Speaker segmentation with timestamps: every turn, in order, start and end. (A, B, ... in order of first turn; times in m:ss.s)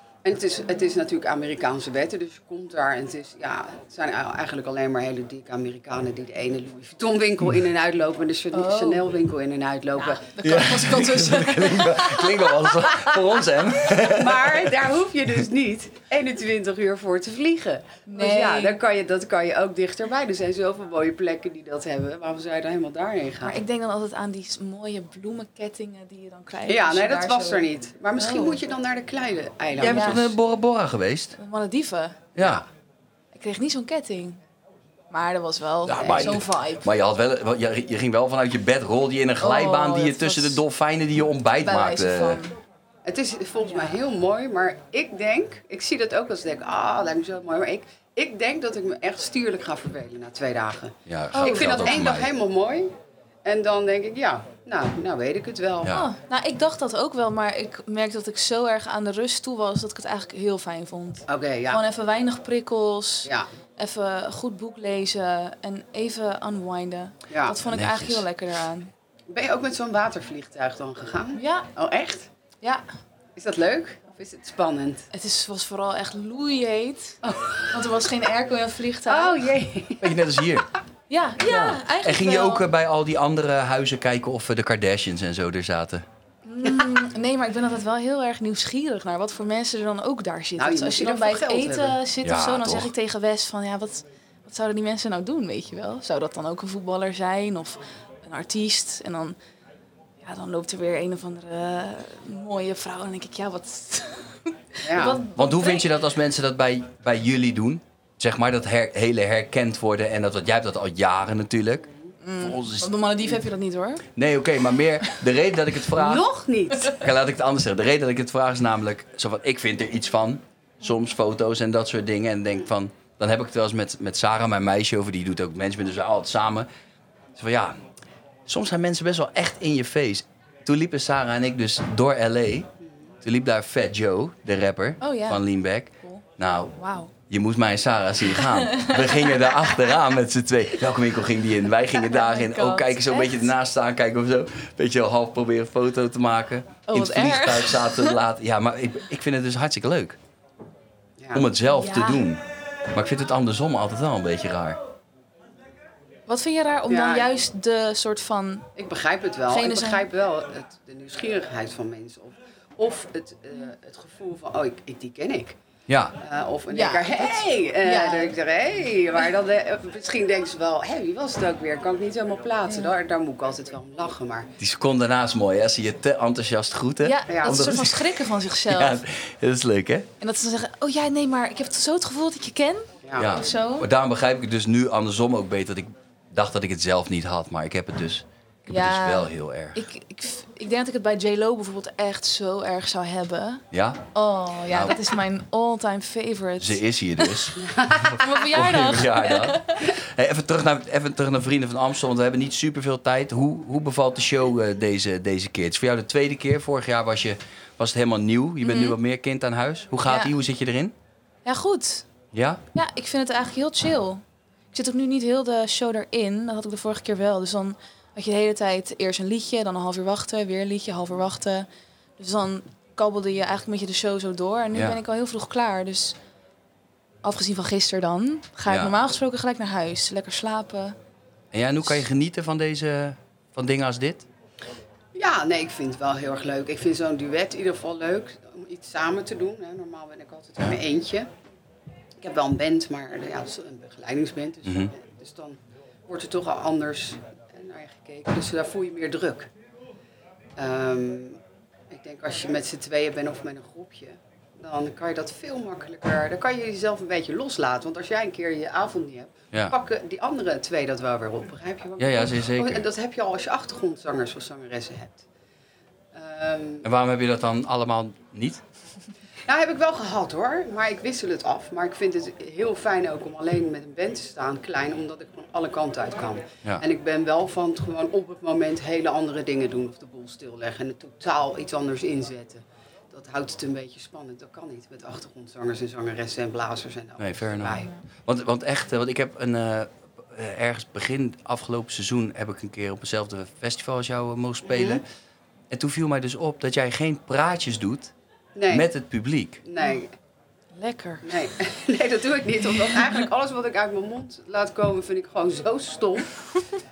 0:00.2-0:10.4 A
0:08.5-0:09.0 B
0:10.0-0:12.6 B
0:10.4-0:14.8 C
0:12.8-0:13.3 A
0:13.9-0:23.6 A
0:18.0-0:18.8 B
0:23.4-0:28.6 B
0:26.6-0:30.4 A
0:29.8-0:31.4 C
0:29.8-0:30.2 B
0:31.4-0:32.3 B
0:32.3-0:32.6 C
0:32.4-0:32.6 A
0:33.3-0:34.4 B
0:35.1-0:36.8 B
0:35.8-0:42.4 C
0:36.0-0:36.4 A
0:39.4-0:40.6 B
0:41.6-0:42.5 B
0:43.0-0:52.9 A
0:43.6-0:43.9 B
0:51.1-0:52.3 C
0:51.3-0:52.2 B
0:53.4-0:56.0 A
0:55.8-0:56.1 C
0:55.8-1:08.9 B
1:01.3-1:01.8 A
1:07.3-1:07.6 A
1:07.6-1:08.3 C
1:09.3-1:12.3 A
1:11.3-1:11.7 B
1:13.4-1:15.1 A
1:15.1-1:17.2 B
1:17.2-1:18.1 A
1:17.7-1:19.4 B
1:19.0-1:20.2 A
1:20.0-1:20.7 C
1:21.1-1:22.7 B
1:21.4-1:26.0 C
1:26.4-1:39.4 B
1:30.6-1:32.0 A
1:32.2-1:32.9 C
1:40.2-1:45.9 B
1:44.8-1:45.2 A
1:45.3-1:51.8 C
1:52.2-1:54.0 B
1:52.4-1:52.9 C
1:54.2-1:56.3 C
1:55.9-1:57.0 A
1:56.8-2:06.7 C
2:07.4-2:07.8 C
2:08.5-2:12.7 C
2:12.8-2:13.1 A
2:13.2-2:16.7 C
2:15.0-2:15.5 B
2:16.7-2:17.1 B
2:17.3-2:30.2 C
2:18.2-2:19.9 B
2:21.9-2:23.5 B
2:26.9-2:28.2 B
2:31.2-2:31.5 A
2:31.3-2:32.4 C
2:31.6-2:32.3 B
2:32.9-2:34.8 C
2:36.3-2:38.6 B
2:36.9-2:37.3 A
2:38.8-2:45.6 A
2:39.5-2:40.0 B
2:45.9-2:46.2 C
2:46.2-2:54.5 A
2:46.7-2:48.3 B
2:52.6-2:52.9 B
2:54.6-3:00.1 C
2:57.0-2:59.0 B
2:57.3-2:57.6 A
3:00.2-3:03.9 B
3:03.0-3:03.3 A
3:03.1-3:09.8 C
3:08.6-3:17.5 B
3:13.7-3:14.0 C
3:14.7-3:15.0 C
3:16.6-3:17.6 C
3:17.6-3:18.5 A
3:18.1-3:19.9 B
3:18.5-3:30.9 C
3:28.6-3:29.0 B
3:30.0-3:30.3 B
3:31.4-3:32.0 B
3:32.3-3:32.6 C
3:32.7-3:34.2 B
3:34.7-3:41.6 B
3:42.2-3:46.2 B
3:44.7-3:45.0 C
3:47.2-3:50.9 B
3:48.7-3:48.9 C
3:51.5-3:54.3 C
3:55.1-4:01.3 A
4:02.2-4:05.6 A
4:04.6-4:04.9 C
4:06.1-4:09.5 A
4:10.6-4:11.4 A
4:11.9-4:25.2 A
4:22.0-4:22.8 C
4:26.1-4:26.9 A
4:26.8-4:28.6 C
4:29.5-4:47.9 A
4:47.2-4:55.0 C
4:54.6-4:55.0 A
4:55.7-4:58.1 C
4:58.6-4:58.9 A
4:58.7-4:59.6 C
4:59.6-5:00.1 A
5:00.7-5:01.4 B
5:01.2-5:06.4 A
5:02.9-5:03.2 B